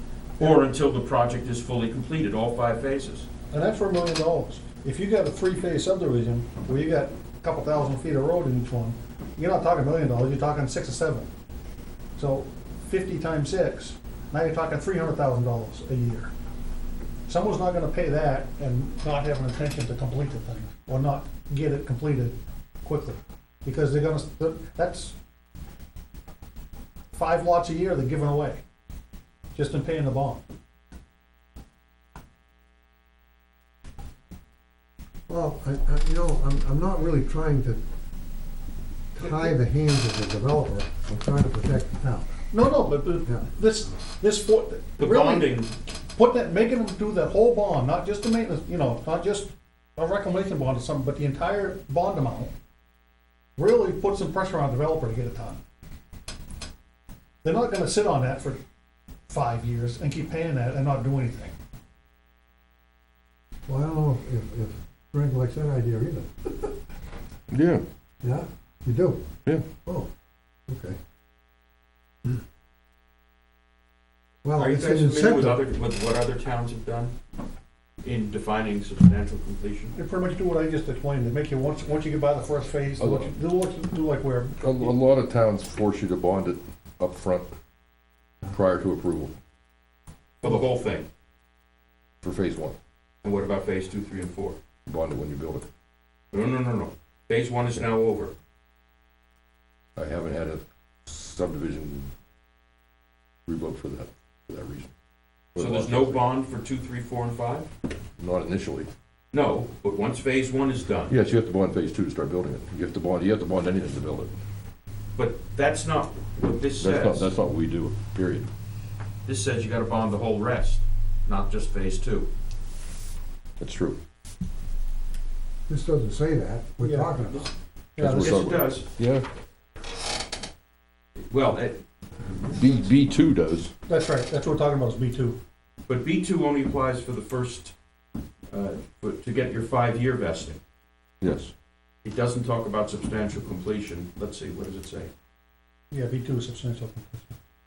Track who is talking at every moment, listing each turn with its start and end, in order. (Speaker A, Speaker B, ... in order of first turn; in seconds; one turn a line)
Speaker A: 0.4-3.3
Speaker B: 0.4-0.7
Speaker B: 3.5-11.3
Speaker B: 12.2-16.3
Speaker B: 17.3-25.2
Speaker B: 27.1-28.6
Speaker B: 29.6-30.4
Speaker C: 35.3-37.8
Speaker C: 39.1-42.4
Speaker B: 42.5-52.5
Speaker A: 45.0-45.8
Speaker B: 53.6-55.6
Speaker B: 57.4-58.6
Speaker B: 59.3-61.5
Speaker C: 63.7-66.7
Speaker D: 67.5-67.8
Speaker C: 68.2-69.2
Speaker C: 69.8-70.1
Speaker C: 70.7-71.0
Speaker C: 74.4-75.6
Speaker A: 74.6-77.2
Speaker A: 78.0-80.0
Speaker B: 80.0-84.7
Speaker D: 83.0-83.3
Speaker D: 84.6-87.5
Speaker D: 88.5-89.3
Speaker A: 90.4-91.1
Speaker D: 92.2-92.8
Speaker A: 93.2-94.6
Speaker D: 94.9-95.7
Speaker A: 96.3-98.3
Speaker D: 100.0-102.1
Speaker D: 103.5-104.9
Speaker D: 105.5-106.2
Speaker A: 105.6-107.7
Speaker D: 108.2-108.9
Speaker A: 109.3-111.2
Speaker D: 111.1-114.3
Speaker A: 115.2-117.3
Speaker D: 116.8-118.5
Speaker A: 119.3-122.3
Speaker D: 123.6-124.0
Speaker C: 125.7-127.5
Speaker B: 126.8-127.2
Speaker B: 128.0-128.5
Speaker D: 128.0-129.3
Speaker A: 128.0-128.9
Speaker A: 131.3-132.7
Speaker D: 132.6-133.7
Speaker B: 133.9-135.4
Speaker A: 135.9-137.7
Speaker A: 138.5-140.6
Speaker D: 141.2-141.5
Speaker A: 142.0-145.1
Speaker B: 145.9-147.3